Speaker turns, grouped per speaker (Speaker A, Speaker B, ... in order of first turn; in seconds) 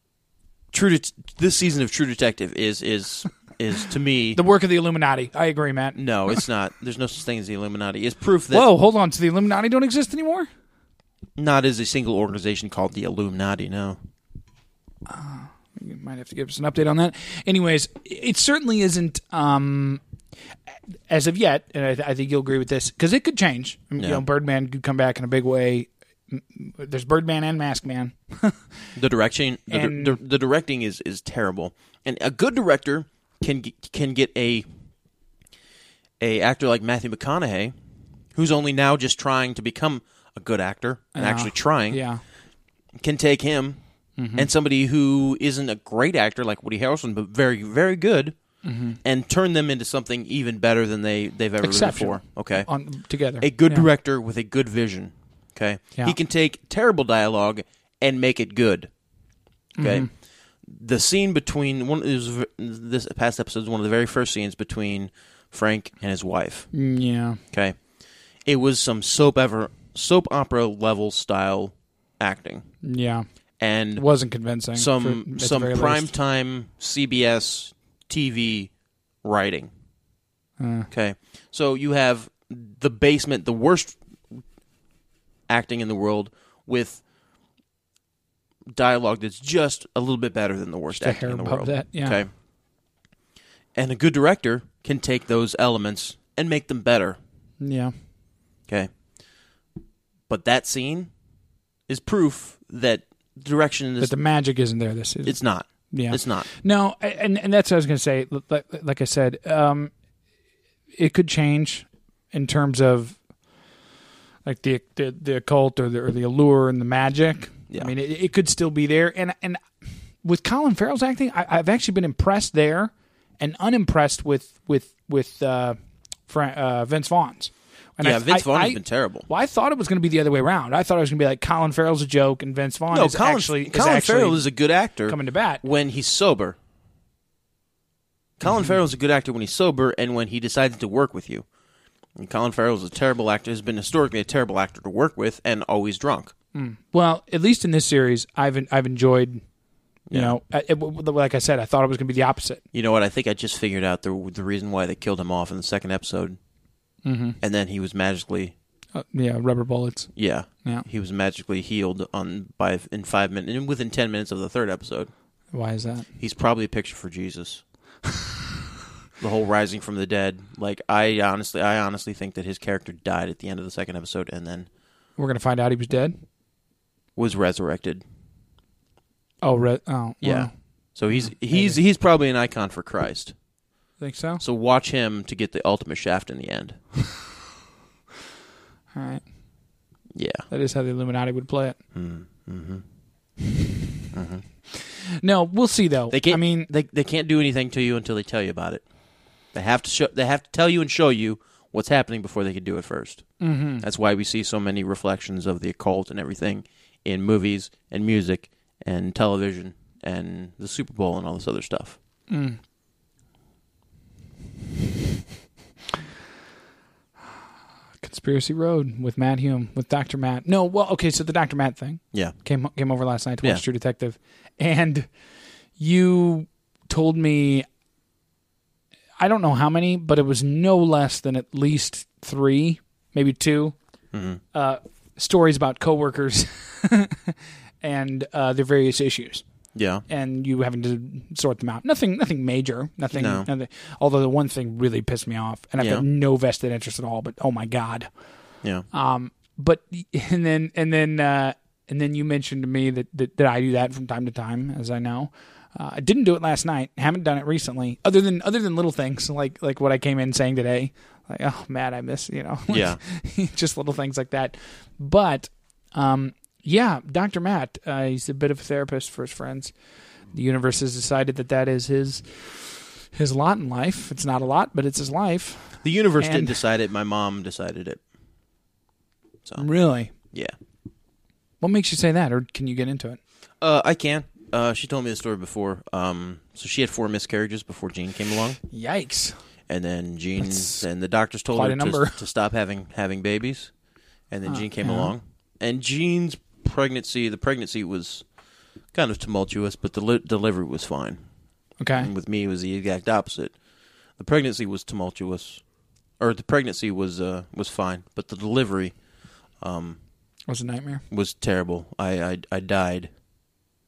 Speaker A: 0.7-4.4, 6.0-8.7, 11.3-14.0, 24.0-24.2, 28.9-34.6, 36.2-37.7, 38.3-42.0, 43.0-43.8, 44.4-48.4, 49.0-52.7, 53.4-58.9, 59.8-60.1, 60.6-66.7, 67.5-67.8, 68.5-72.7, 73.6-74.0, 74.7-78.7, 79.2-79.7, 80.9-84.4, 85.5-87.0, 88.7-92.3, 93.7-97.2, 100.3-101.1, 101.9-104.1, 105.2-106.5, 128.0-129.3, 132.9-136.6, 138.4-141.4, 142.2-146.3, 150.1-150.3, 152.7-156.4, 157.4-158.5, 160.1-165.1, 166.2-167.6, 169.2-174.7, 177.2-178.0, 180.2-183.3, 184.4-186.8, 190.1-190.5, 191.9-192.8, 194.1-194.4, 196.1-198.8, 199.5-212.0, 234.1-234.4, 239.7-240.0, 243.1-243.5, 245.8-246.0, 262.7-263.0, 275.8-278.0, 280.2-280.5, 283.6-288.6, 289.7-293.7, 294.3-298.2, 298.9-301.2, 302.0-303.5, 304.2-305.6, 306.2-308.9, 309.6-310.0, 311.1-313.1
Speaker B: 4.3-6.0, 8.5-10.5, 15.1-20.0, 21.1-28.9, 29.7-30.2, 41.1-42.2, 44.2-44.5, 48.6-49.0, 51.6-53.9, 59.8-60.1, 66.7-67.4, 72.8-73.2, 74.0-76.1, 80.6-80.9, 90.9-92.2, 97.6-97.9, 104.0-105.4, 105.9-109.9, 111.0-113.2, 114.4-119.6, 120.2-125.8, 126.3-134.5, 135.1-135.6, 146.5-149.4, 150.1-152.6, 157.0-157.4, 158.9-160.1, 165.5-166.1, 175.2-176.1, 179.4-180.5, 181.1-181.8, 184.0-184.4, 188.9-189.2, 190.5-191.8, 194.7-196.7, 203.4-203.8, 212.3-212.6, 218.0-225.1, 225.8-227.7, 229.2-233.8, 234.5-239.4, 240.1-248.1, 248.9-269.7, 270.3-276.6, 279.6-280.1, 281.6-283.2, 288.7-289.4, 290.4-290.8, 291.5-292.2, 294.4-295.1, 301.8-302.1, 310.5-311.0